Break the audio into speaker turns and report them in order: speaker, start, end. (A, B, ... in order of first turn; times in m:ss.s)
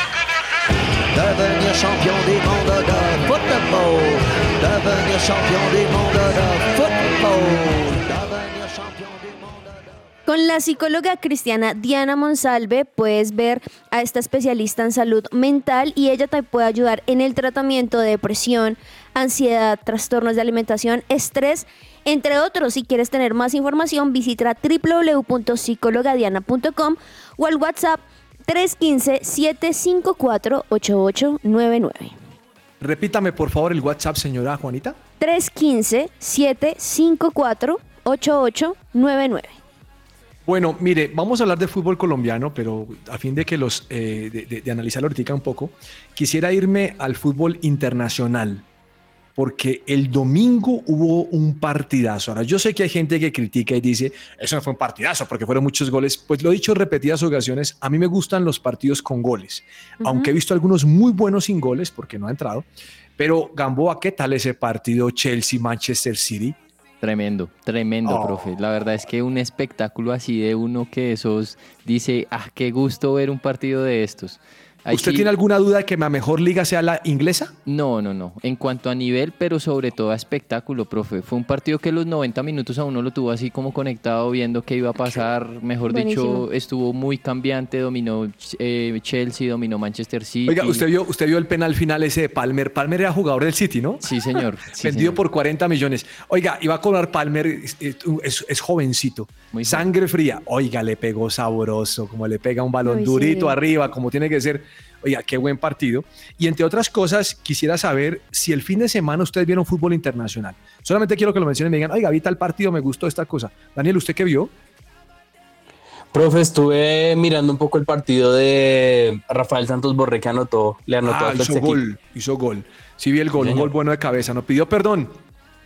0:01.1-0:10.0 A
0:10.3-0:32.1 B
0:32.8-0:35.0 C
0:35.2-0:39.6 B
0:40.4-0:48.6 C
0:49.4-1:06.6 C
1:00.0-1:00.3 B
1:07.0-1:15.3 D
1:08.0-1:08.5 C
1:14.9-1:17.5 C
1:17.6-1:30.8 D
1:25.9-1:26.4 B
1:30.5-1:34.2 C
1:34.0-1:35.2 D
1:34.7-1:54.5 C
1:39.5-1:39.9 D
1:42.8-1:43.6 B
1:56.1-2:01.8 E
2:01.0-2:05.2 C
2:03.4-2:03.7 E